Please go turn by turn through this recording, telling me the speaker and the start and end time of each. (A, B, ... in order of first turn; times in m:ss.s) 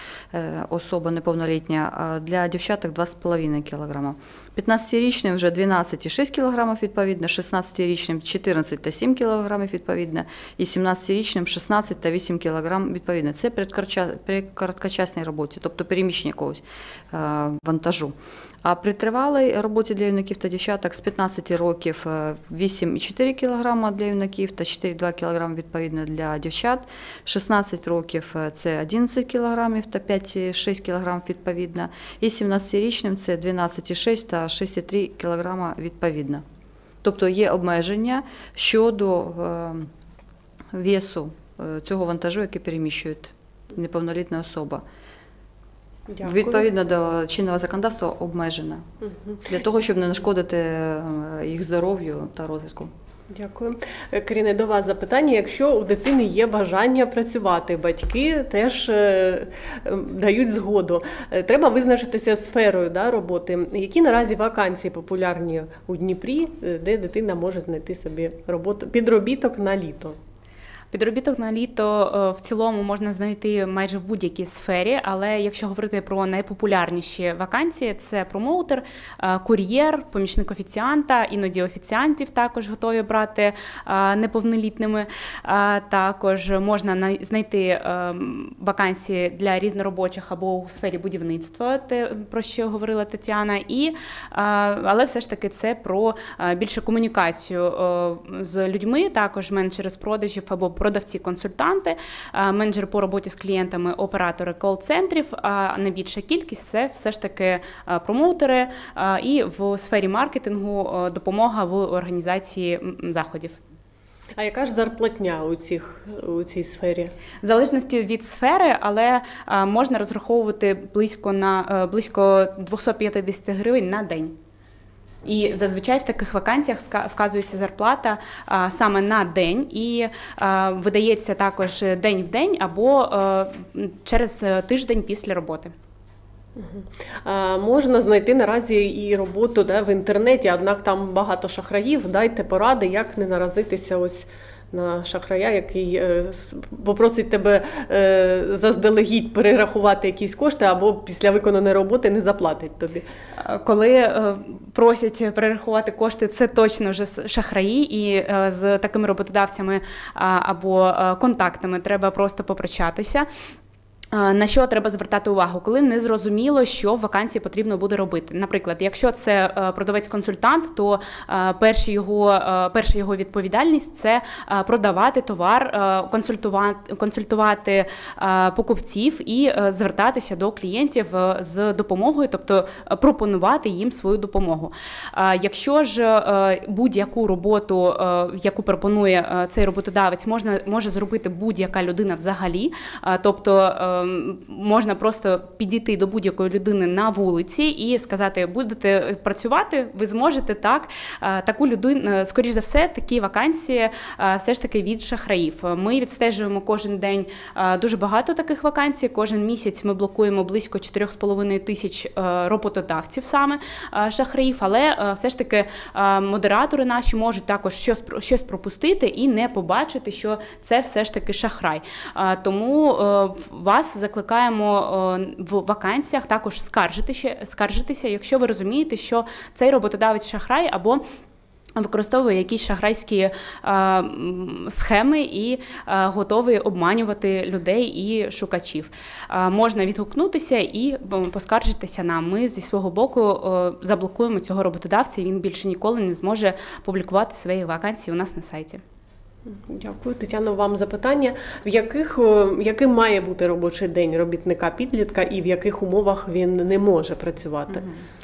0:00.3-0:36.4 A
0:37.0-0:39.9 A
0:40.7-0:44.8 A
0:46.1-0:46.6 B
0:46.2-0:48.8 A
0:49.0-0:49.4 B
0:49.5-0:52.9 A
0:53.3-1:10.2 B
1:10.9-1:53.6 C
1:54.4-1:57.1 B
1:57.4-2:04.3 C
2:05.2-2:15.7 C
2:16.6-2:33.0 B
2:33.4-2:43.3 C
2:44.1-3:51.0 C
3:51.8-4:08.8 C
4:09.5-4:17.8 B